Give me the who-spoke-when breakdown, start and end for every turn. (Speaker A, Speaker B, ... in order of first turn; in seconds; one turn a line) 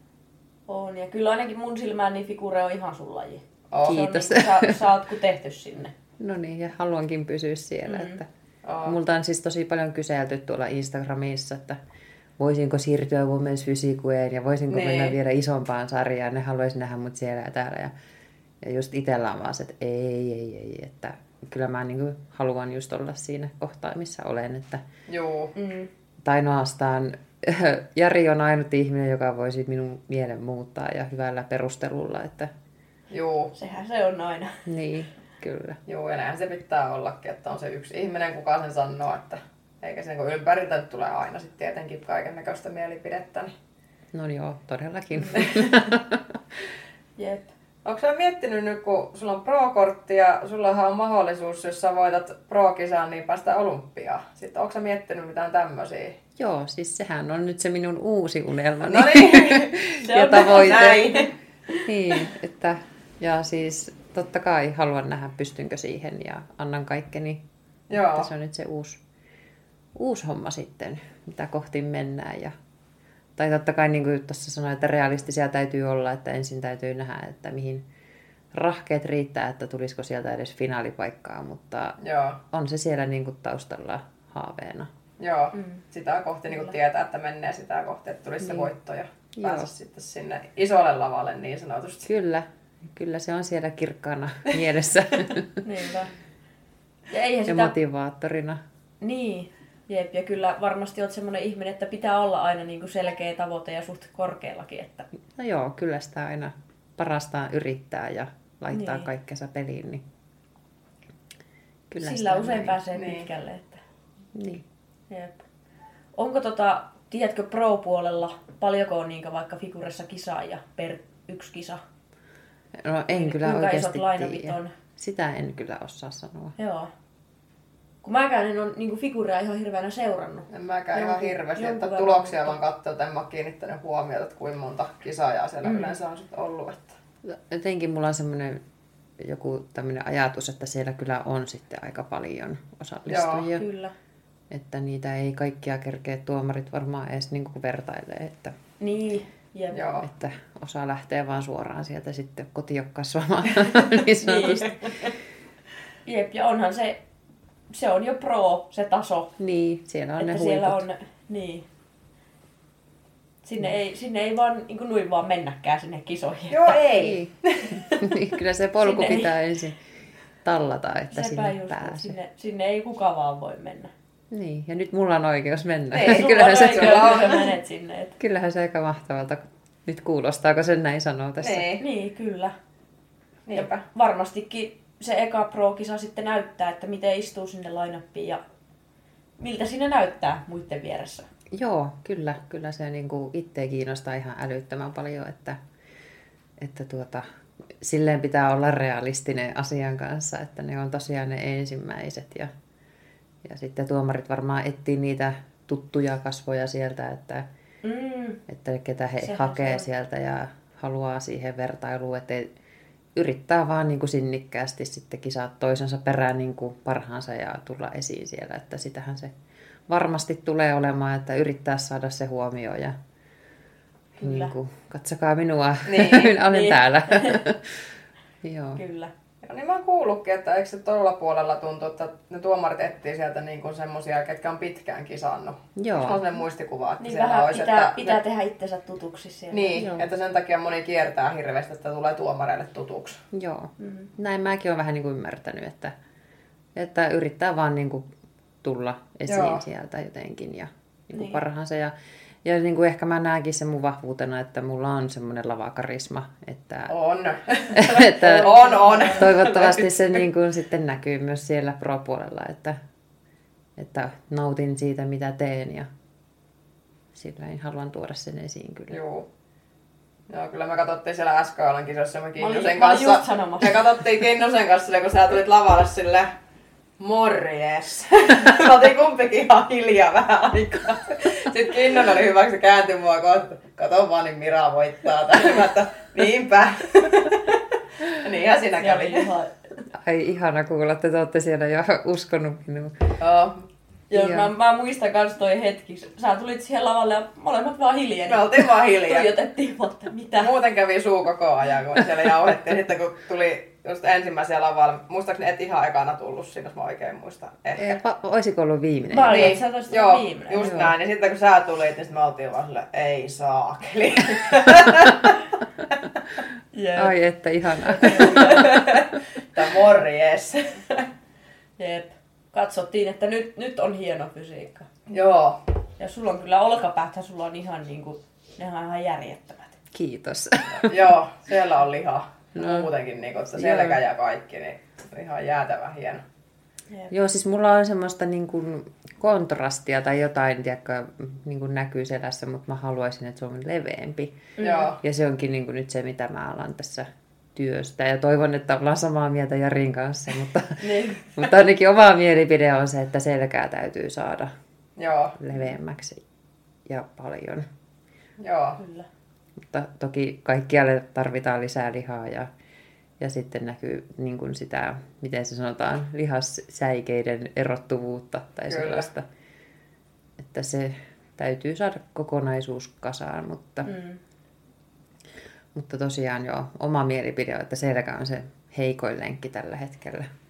Speaker A: 0.7-5.9
Speaker B: 3.7-4.0
Speaker C: 3.8-4.8
Speaker C: 6.2-8.2
Speaker A: 7.9-8.2
Speaker B: 8.6-9.0
Speaker C: 8.8-11.8
Speaker C: 12.4-17.9
Speaker B: 14.7-15.2
Speaker C: 18.6-24.8
Speaker B: 25.1-25.5
Speaker A: 25.5-25.9
Speaker C: 26.2-32.5
Speaker B: 33.1-33.5
Speaker A: 33.5-34.6
Speaker C: 34.6-35.8
Speaker B: 35.9-43.5
Speaker C: 44.1-46.4
Speaker A: 47.2-47.5
Speaker B: 47.8-56.2
Speaker C: 56.4-61.1
Speaker B: 58.8-59.8
Speaker A: 59.9-61.8
Speaker B: 60.3-61.3
Speaker C: 61.8-67.4
Speaker B: 67.9-68.3
Speaker C: 67.9-69.0
Speaker C: 69.9-72.5
Speaker C: 73.4-77.8
Speaker C: 78.5-82.0
Speaker B: 82.0-82.4
Speaker C: 82.5-84.9
Speaker B: 85.2-92.1
Speaker A: 85.5-85.8
Speaker C: 88.4-88.7
Speaker C: 89.3-89.7
Speaker C: 92.0-95.6
Speaker A: 95.6-96.1
Speaker A: 97.1-97.7
Speaker C: 97.5-98.6
Speaker A: 99.0-105.1
Speaker C: 105.3-110.0
Speaker A: 108.7-109.1
Speaker C: 111.9-112.8
Speaker A: 112.0-113.8
Speaker B: 112.9-113.3
Speaker C: 114.3-114.6
Speaker A: 115.1-115.4
Speaker A: 116.2-121.8
Speaker C: 122.8-126.5
Speaker A: 123.1-124.7
Speaker A: 126.6-126.9
Speaker A: 128.0-132.6
Speaker B: 130.5-136.9
Speaker A: 135.6-136.0
Speaker C: 137.2-138.6
Speaker C: 139.2-143.6
Speaker B: 143.1-143.5
Speaker A: 143.5-143.9
Speaker C: 144.5-148.6
Speaker A: 148.8-149.8
Speaker B: 149.7-150.1
Speaker C: 150.0-154.9
Speaker A: 154.1-155.1
Speaker A: 156.1-157.0
Speaker A: 157.7-159.3
Speaker C: 159.4-160.8
Speaker A: 160.2-161.7
Speaker A: 163.4-166.8
Speaker B: 166.5-167.7
Speaker C: 166.9-169.8
Speaker A: 167.8-168.1
Speaker A: 168.8-169.3
Speaker C: 170.4-172.2
Speaker A: 171.1-173.9
Speaker C: 174.3-177.2
Speaker B: 175.9-177.5
Speaker A: 176.0-178.2
Speaker C: 178.2-181.7
Speaker B: 181.4-181.8
Speaker A: 181.8-182.5
Speaker B: 183.5-183.8
Speaker A: 183.5-188.4
Speaker A: 189.4-191.3
Speaker C: 191.5-195.6
Speaker C: 196.6-197.2
Speaker C: 197.8-202.5
Speaker C: 203.4-207.4
Speaker A: 207.8-208.4
Speaker C: 208.5-212.5
Speaker A: 209.2-209.8
Speaker C: 213.1-219.3
Speaker C: 219.9-222.9
Speaker C: 224.2-227.9
Speaker A: 224.2-224.5
Speaker B: 225.8-226.4
Speaker A: 226.4-227.4
Speaker C: 228.4-228.8
Speaker A: 228.8-229.1
Speaker B: 229.4-238.2
Speaker C: 235.8-236.2
Speaker A: 237.0-239.8
Speaker B: 239.5-243.2
Speaker C: 239.7-240.1
Speaker C: 243.3-245.9
Speaker A: 243.8-244.1
Speaker C: 246.7-248.1
Speaker C: 248.6-256.9
Speaker B: 249.3-249.6
Speaker A: 251.1-251.4
Speaker B: 256.9-260.2
Speaker C: 257.7-258.5
Speaker A: 258.0-259.3
Speaker C: 259.1-262.8
Speaker C: 263.8-265.9
Speaker C: 267.1-269.0
Speaker B: 268.9-269.3
Speaker B: 270.3-276.3
Speaker A: 272.4-273.8
Speaker B: 277.0-289.3
Speaker A: 288.8-289.5
Speaker C: 289.9-293.0
Speaker B: 293.2-293.7
Speaker A: 294.1-300.5
Speaker C: 294.1-294.5
Speaker B: 298.3-299.3
Speaker B: 300.4-308.0
Speaker C: 307.8-309.6
Speaker A: 309.1-310.8
Speaker B: 309.3-315.5
Speaker C: 310.6-310.9
Speaker A: 316.7-317.1
Speaker C: 316.9-318.8
Speaker A: 317.8-319.1
Speaker B: 318.2-321.0
Speaker A: 321.8-324.9
Speaker B: 325.1-325.6
Speaker A: 326.0-329.8
Speaker C: 329.9-331.1
Speaker B: 330.8-336.2
Speaker C: 332.6-332.9
Speaker C: 333.6-334.0
Speaker C: 337.1-350.8
Speaker A: 344.6-344.9
Speaker B: 344.6-345.0
Speaker A: 350.8-351.4
Speaker C: 351.3-354.5
Speaker B: 355.0-355.4
Speaker C: 355.4-356.2
Speaker C: 356.9-357.6
Speaker B: 358.4-358.8
Speaker A: 358.8-359.1
Speaker C: 359.7-362.5
Speaker C: 363.2-369.3
Speaker B: 368.7-369.1
Speaker C: 370.4-373.9
Speaker A: 373.8-374.2
Speaker C: 375.7-380.3